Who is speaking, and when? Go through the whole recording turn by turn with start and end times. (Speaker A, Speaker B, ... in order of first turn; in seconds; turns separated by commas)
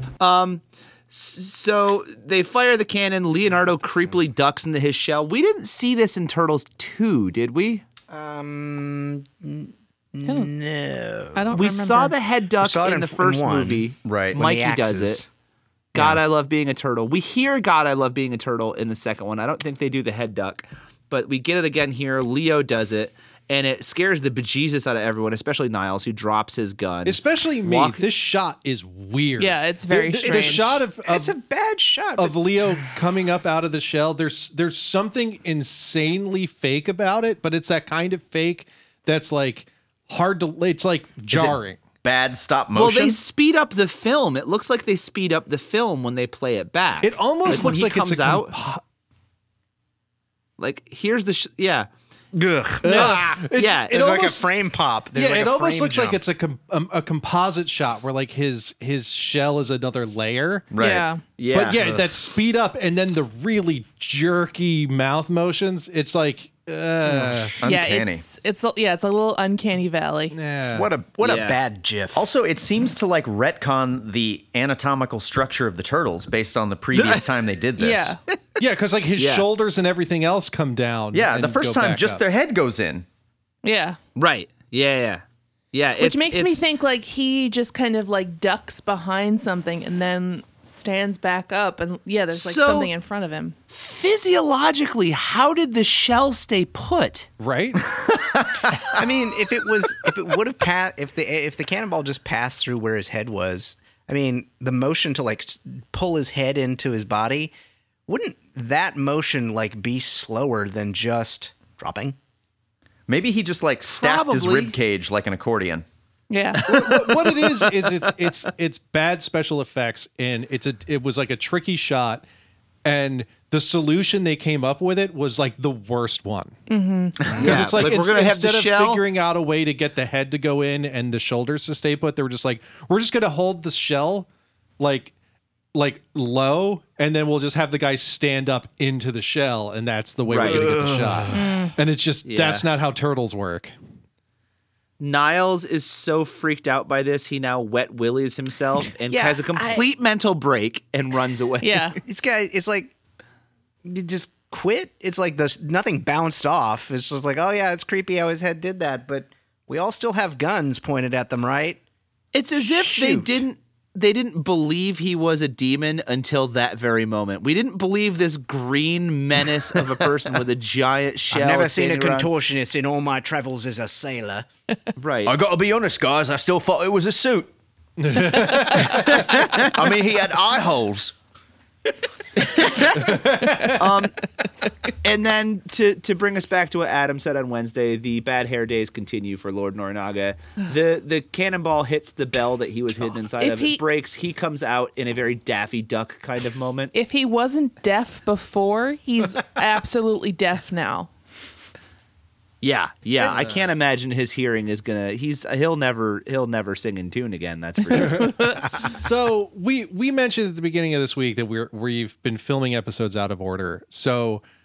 Speaker A: 0.2-7.8, Speaker B: 8.1-11.5, Speaker C: 10.2-10.5, Speaker C: 11.3-12.1, Speaker A: 11.5-15.2, Speaker B: 12.6-15.3, Speaker D: 14.0-14.4, Speaker A: 15.9-28.1, Speaker B: 15.9-16.2, Speaker E: 27.0-31.4, Speaker C: 29.4-30.8, Speaker B: 30.2-32.8, Speaker E: 32.2-41.8, Speaker D: 41.3-43.2, Speaker A: 42.7-48.5, Speaker E: 47.0-48.8, Speaker A: 50.6-51.9, Speaker B: 52.3-56.2, Speaker E: 52.8-54.4, Speaker A: 52.8-54.0, Speaker E: 55.1-60.6, Speaker D: 60.7-61.1, Speaker C: 60.8-61.2, Speaker A: 61.4-62.0, Speaker E: 61.5-67.5, Speaker B: 61.8-62.0, Speaker B: 67.0-67.5, Speaker D: 67.6-68.2, Speaker C: 67.6-70.3, Speaker E: 70.3-70.9, Speaker B: 70.7-72.2, Speaker A: 71.2-71.6, Speaker D: 72.1-78.1, Speaker A: 77.0-77.2, Speaker C: 77.8-78.2, Speaker E: 78.6-82.2, Speaker A: 79.2-79.5, Speaker D: 81.1-83.0, Speaker C: 83.6-84.0, Speaker A: 84.2-86.6, Speaker C: 86.0-93.5, Speaker A: 92.3-92.9, Speaker A: 93.7-97.3, Speaker E: 97.4-97.8, Speaker D: 98.3-98.7, Speaker B: 98.9-107.5, Speaker B: 108.1-112.2, Speaker D: 113.1-115.8, Speaker A: 113.9-114.7, Speaker C: 116.3-116.6, Speaker A: 116.6-118.1, Speaker E: 116.7-122.2, Speaker E: 122.8-126.6, Speaker C: 126.7-127.2, Speaker E: 127.3-134.3, Speaker A: 127.3-129.0, Speaker B: 127.3-127.6, Speaker E: 134.8-135.1, Speaker E: 135.7-143.7, Speaker A: 140.3-140.8, Speaker B: 140.4-141.4, Speaker C: 141.3-141.7, Speaker A: 142.2-142.7, Speaker A: 145.0-151.9, Speaker B: 149.1-149.9, Speaker C: 151.6-152.0, Speaker B: 152.0-152.9, Speaker B: 153.8-161.8, Speaker A: 162.3-172.3, Speaker B: 162.6-163.4, Speaker B: 171.3-174.5, Speaker A: 174.9-175.3, Speaker D: 175.2-177.5, Speaker E: 178.0-179.2, Speaker C: 178.6-178.8, Speaker D: 178.7-181.1, Speaker A: 182.4-183.1, Speaker E: 183.1-183.8, Speaker A: 183.8-184.2, Speaker A: 185.0-196.9, Speaker C: 193.4-193.8, Speaker C: 196.9-201.1, Speaker A: 202.6-208.4, Speaker E: 208.0-214.4, Speaker C: 208.1-208.8